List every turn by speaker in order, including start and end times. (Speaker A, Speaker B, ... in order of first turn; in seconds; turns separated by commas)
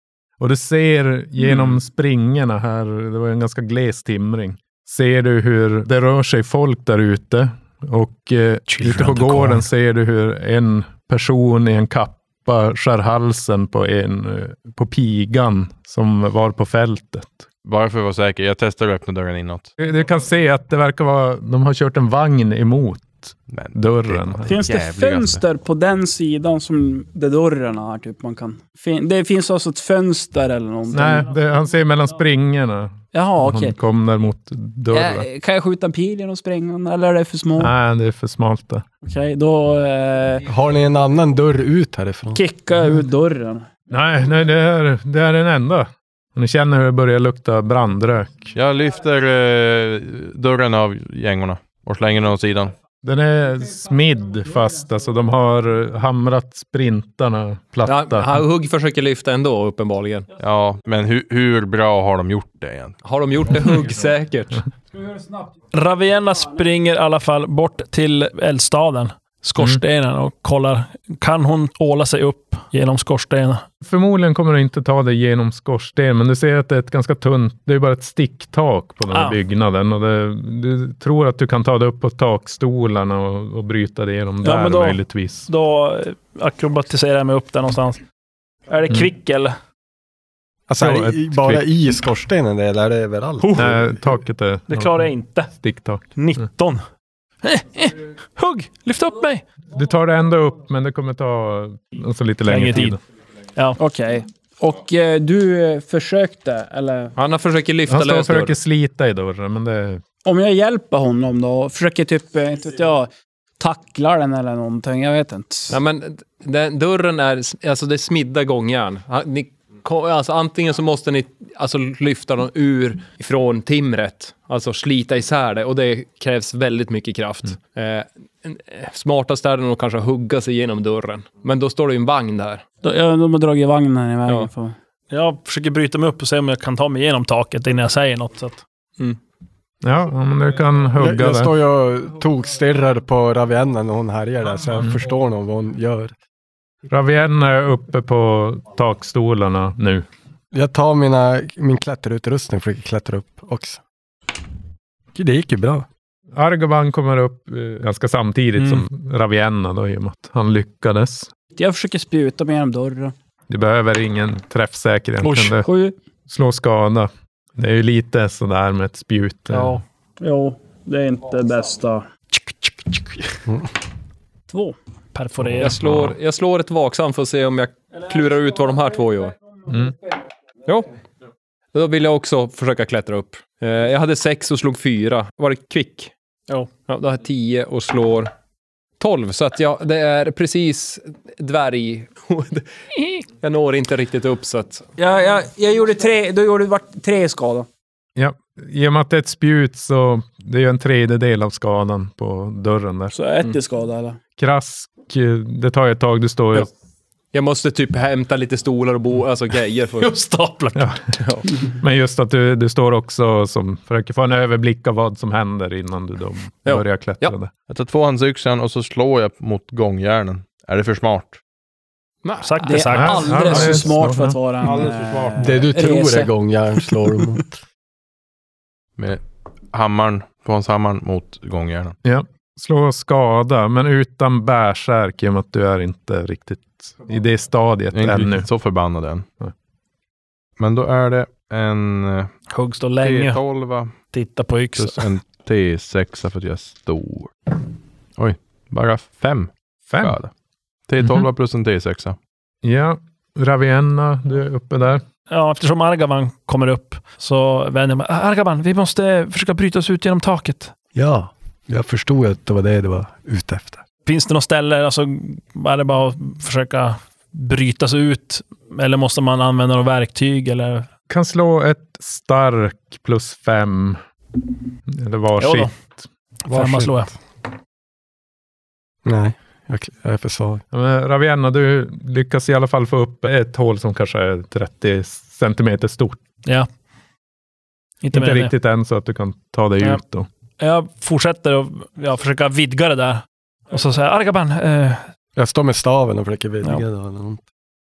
Speaker A: 0.4-17.4, Speaker B: 17.6-19.7, Speaker A: 19.8-24.5, Speaker B: 23.5-25.4, Speaker C: 24.4-31.3, Speaker A: 30.9-35.2, Speaker C: 33.1-33.7, Speaker C: 34.9-37.7, Speaker A: 37.6-38.8, Speaker C: 39.0-40.5, Speaker D: 40.5-42.4, Speaker C: 42.3-43.7, Speaker A: 43.9-48.5, Speaker B: 48.5-52.7, Speaker A: 53.0-58.4, Speaker E: 57.9-60.3, Speaker B: 60.4-63.0, Speaker E: 63.0-64.6, Speaker F: 65.7-73.6, Speaker A: 73.8-85.5, Speaker F: 79.1-79.4, Speaker F: 84.4-88.0, Speaker F: 88.7-89.5, Speaker D: 90.7-94.0, Speaker A: 90.8-91.6, Speaker A: 93.5-96.1, Speaker F: 94.7-95.5, Speaker F: 96.1-96.8, Speaker F: 97.4-99.4, Speaker A: 99.7-103.0, Speaker F: 102.5-103.0, Speaker C: 103.8-107.1, Speaker E: 107.2-108.6, Speaker A: 107.9-110.0, Speaker C: 110.2-115.8, Speaker E: 115.7-132.6, Speaker C: 132.8-134.8, Speaker F: 135.1-138.6, Speaker A: 139.8-141.5, Speaker D: 141.0-146.1, Speaker A: 146.9-150.1, Speaker D: 150.5-153.8, Speaker D: 155.1-155.9, Speaker A: 156.3-161.3, Speaker F: 158.6-158.8, Speaker C: 161.6-163.1, Speaker A: 163.5-165.7, Speaker F: 165.2-165.5, Speaker C: 165.6-165.9, Speaker A: 166.3-169.8, Speaker F: 169.5-169.8, Speaker C: 170.2-172.1, Speaker C: 174.5-174.8, Speaker F: 175.1-175.8, Speaker A: 175.5-176.1, Speaker E: 175.6-179.3, Speaker A: 179.7-179.9, Speaker E: 181.7-186.1, Speaker E: 186.8-188.3, Speaker E: 189.0-194.8, Speaker C: 195.0-197.7, Speaker A: 198.2-203.1, Speaker C: 203.1-204.2, Speaker A: 204.4-206.7, Speaker E: 207.3-211.5, Speaker A: 210.7-211.1, Speaker A: 211.6-217.5, Speaker E: 216.7-217.3, Speaker B: 217.7-221.4, Speaker E: 222.2-222.9, Speaker F: 222.4-223.9, Speaker C: 222.6-226.3, Speaker A: 222.9-225.5, Speaker D: 225.4-227.6, Speaker B: 229.0-231.9, Speaker A: 232.0-238.5, Speaker B: 237.9-239.3, Speaker B: 240.6-242.3, Speaker F: 242.5-243.4, Speaker B: 243.0-244.0, Speaker F: 244.1-245.1, Speaker B: 244.8-247.3, Speaker B: 248.2-250.3, Speaker A: 249.9-250.2, Speaker B: 250.9-252.2, Speaker A: 251.0-251.2, Speaker A: 252.6-255.0, Speaker F: 255.3-260.7, Speaker D: 260.9-263.8, Speaker F: 264.1-270.9, Speaker A: 271.1-274.0, Speaker A: 274.9-276.0, Speaker F: 275.4-275.7, Speaker F: 276.4-277.1, Speaker D: 276.5-277.0, Speaker D: 279.0-280.6, Speaker A: 280.7-286.2, Speaker F: 288.0-288.5, Speaker A: 288.1-290.3, Speaker F: 290.6-295.1, Speaker D: 295.4-297.4